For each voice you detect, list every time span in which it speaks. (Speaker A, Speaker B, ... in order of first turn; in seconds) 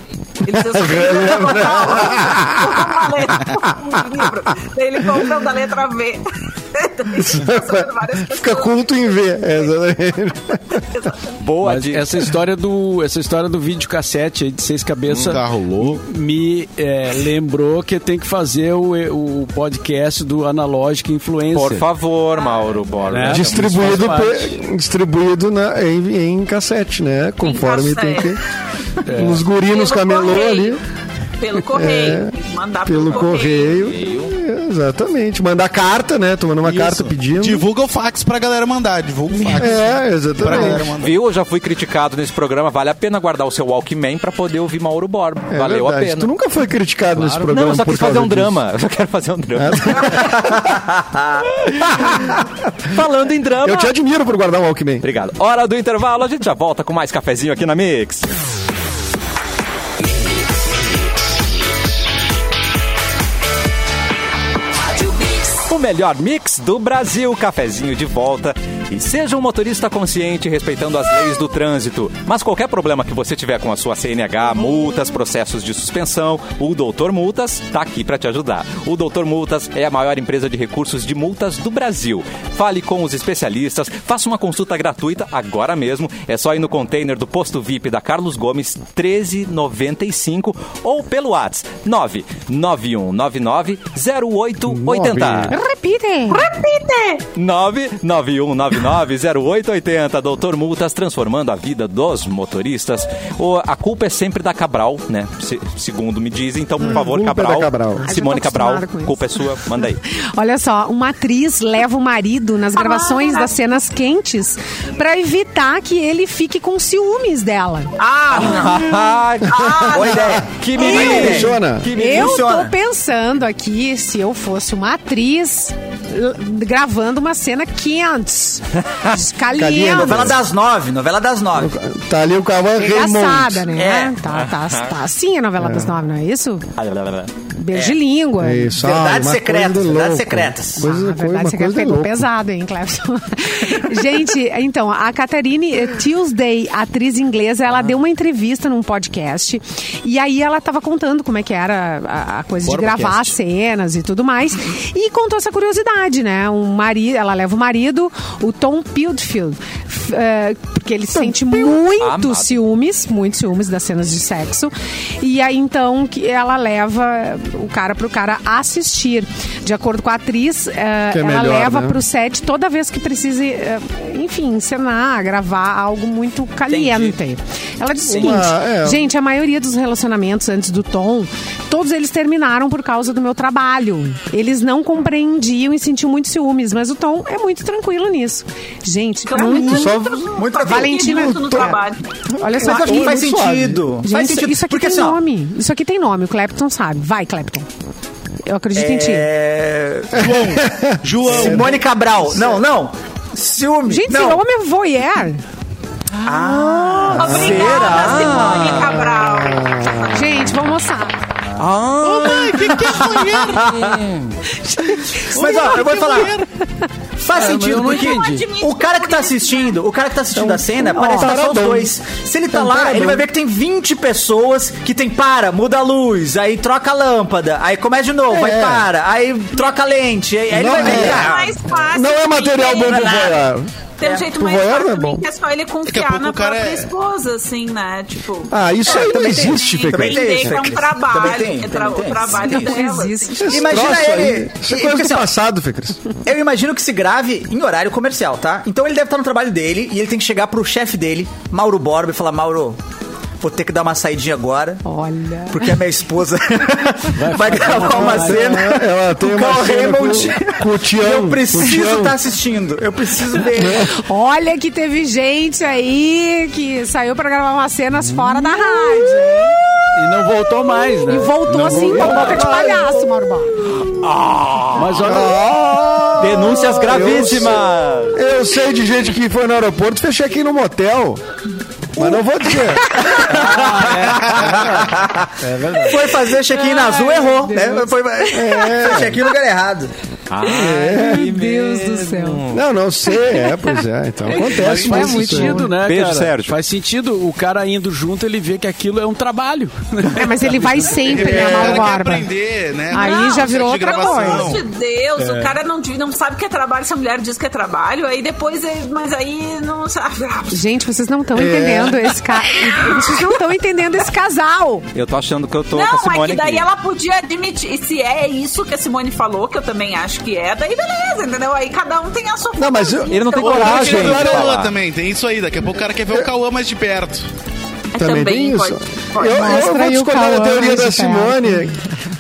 Speaker A: 0.4-9.4, 10.9-11.3, 27.4-28.4, 29.5-30.8, 31.4-33.9, 96.3-97.3, 112.8-113.5, 118.0-120.3, 189.3-192.1, 207.1-209.9, 217.3-219.8, 230.8-233.5, 234.0-243.6, 302.9-310.6, 315.7-324.2, 327.9-329.7
Speaker B: 0.5-3.8, 7.1-10.8, 23.2-28.4, 29.1-30.8, 31.6-32.3, 32.9-37.7, 39.6-41.0, 45.5-48.6, 49.6-50.6, 51.7-52.3, 53.6-55.1, 94.7-95.5, 106.8-108.1, 120.2-121.9, 129.5-130.4, 131.6-133.7, 135.6-136.0, 138.4-142.3, 171.1-172.0, 178.1-179.1, 189.5-190.4, 192.4-193.9, 200.6-201.8, 209.3-210.3, 220.3-221.9, 222.5-223.3, 228.3-228.9, 230.5-233.7, 234.3-235.2, 238.5-240.6, 243.4-246.0, 257.8-262.2, 263.6-263.9, 275.0-281.2, 281.9-283.2, 288.3-289.2, 290.4-291.3, 292.5-295.6, 311.3-312.1, 322.6-324.5, 328.0-331.8
Speaker C: 11.4-12.3, 15.1-15.4, 21.5-24.2, 33.9-34.4, 41.0-46.3, 47.4-50.4, 51.9-52.2, 52.9-53.9, 55.0-58.3, 65.7-95.5, 97.4-110.0, 118.3-122.5, 128.9-129.2, 134.3-135.0, 136.8-137.3, 152.7-153.3, 161.9-162.6, 206.2-209.2, 211.6-214.4, 271.9-272.5, 273.8-275.2, 276.2-278.2, 290.3-292.6, 295.8-296.6, 314.9-316.7, 323.1-324.8
Speaker D: 11.6-21.9, 23.1-24.6, 29.1-29.5, 217.3-218.4, 257.2-258.5, 268.0-268.6, 269.9-272.6, 274.7-275.4, 283.3-284.9, 285.4-286.1, 294.2-301.7, 305.2-305.6
Speaker E: 15.2-16.0, 36.7-41.2, 200.2-201.8, 212.0-213.5, 215.5-216.3, 235.9-236.9, 301.1-304.6, 323.4-327.3
Speaker F: 39.4-39.7, 95.5-96.5, 108.0-109.6, 110.2-118.0, 120.8-130.4, 132.8-136.7, 137.5-138.7, 140.8-190.0, 190.6-191.8, 192.4-193.5, 194.0-197.7, 198.5-199.3, 203.9-205.4, 210.0-211.2, 212.2-213.2, 214.6-216.8, 220.9-221.3, 242.4-243.8, 254.8-255.8, 263.9-269.6, 271.1-273.7, 286.5-288.7, 290.7-292.5, 293.1-293.7, 294.6-295.7, 300.1-302.3, 302.9-304.5, 310.5-314.9, 329.3-331.7
Speaker G: 50.6-51.5, 119.9-122.7, 129.9-131.7, 133.7-134.2, 137.7-138.0, 138.8-140.9, 176.7-177.2, 178.1-178.4, 189.9-191.7, 192.6-195.2, 198.7-200.6, 201.3-204.4, 206.2-208.1, 212.9-214.0, 215.1-216.4, 217.2-231.6, 232.9-233.3, 238.9-242.8, 243.5-245.3, 246.2-252.8, 253.4-254.8, 255.5-263.9, 283.0-289.9